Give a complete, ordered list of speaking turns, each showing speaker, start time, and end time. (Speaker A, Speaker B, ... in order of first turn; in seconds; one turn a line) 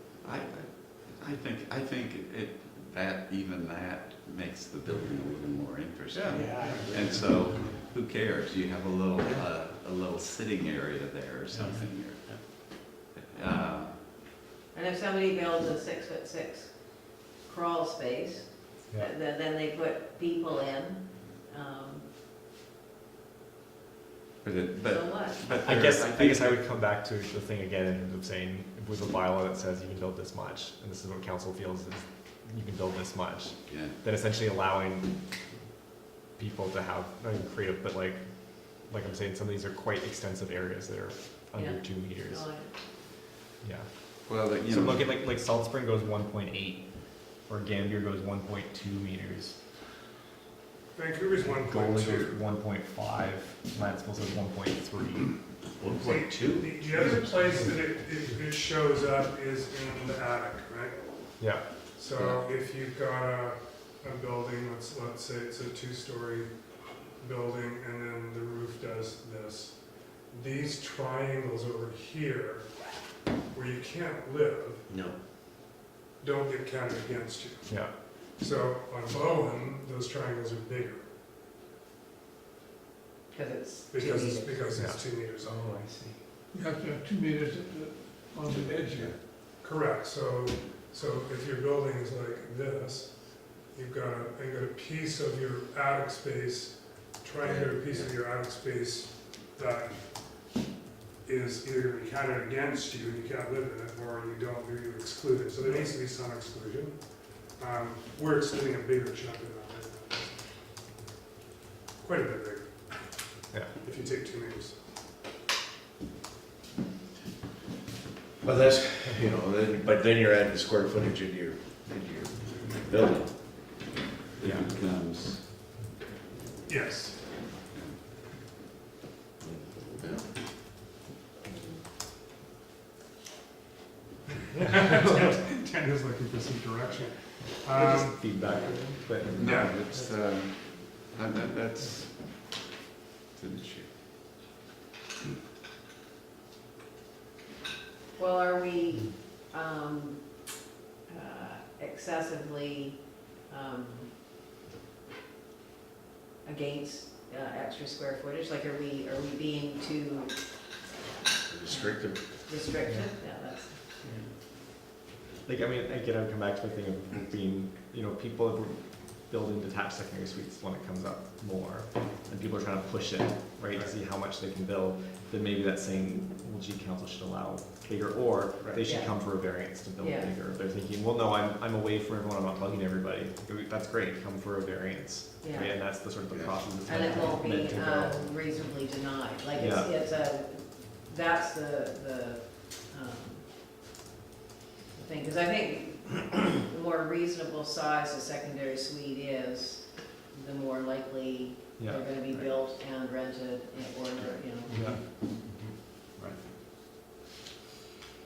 Speaker A: 0.2-14.0
Speaker B: 6.2-7.2
Speaker C: 6.6-6.9
Speaker B: 9.2-9.5
Speaker B: 12.1-12.4
Speaker D: 14.7-22.1
Speaker A: 24.4-26.7
Speaker D: 24.8-25.4
Speaker E: 25.6-35.3
Speaker A: 33.7-34.0
Speaker E: 36.4-42.6
Speaker D: 41.5-42.7
Speaker E: 43.6-49.8
Speaker A: 44.2-45.1
Speaker C: 50.9-52.4
Speaker E: 51.4-55.6
Speaker B: 55.8-56.8
Speaker C: 56.0-73.0
Speaker E: 61.4-61.7
Speaker B: 62.2-62.4
Speaker C: 73.5-74.9
Speaker B: 74.9-75.2
Speaker C: 76.2-81.1
Speaker E: 77.7-78.0
Speaker D: 83.3-84.8
Speaker C: 83.9-86.2
Speaker E: 84.8-85.0
Speaker F: 86.5-89.2
Speaker C: 89.6-100.6
Speaker B: 97.4-98.1
Speaker C: 101.2-110.7
Speaker C: 112.0-115.0
Speaker B: 118.4-123.4
Speaker A: 124.4-125.5
Speaker E: 124.4-124.7
Speaker C: 126.7-127.4
Speaker A: 127.5-128.0
Speaker B: 129.4-130.3
Speaker C: 134.5-138.3
Speaker E: 137.7-140.2
Speaker A: 139.3-142.7
Speaker C: 139.4-139.8
Speaker A: 143.3-143.9
Speaker D: 148.2-150.6
Speaker D: 151.1-154.1
Speaker D: 156.4-160.8
Speaker B: 161.5-162.3
Speaker D: 161.7-163.9
Speaker E: 162.8-163.1
Speaker E: 165.4-188.4
Speaker D: 178.9-180.3
Speaker D: 185.4-185.7
Speaker B: 186.3-186.6
Speaker D: 186.9-193.5
Speaker E: 189.6-189.9
Speaker D: 194.9-204.7
Speaker E: 201.8-202.0
Speaker E: 204.7-205.2
Speaker B: 204.8-206.4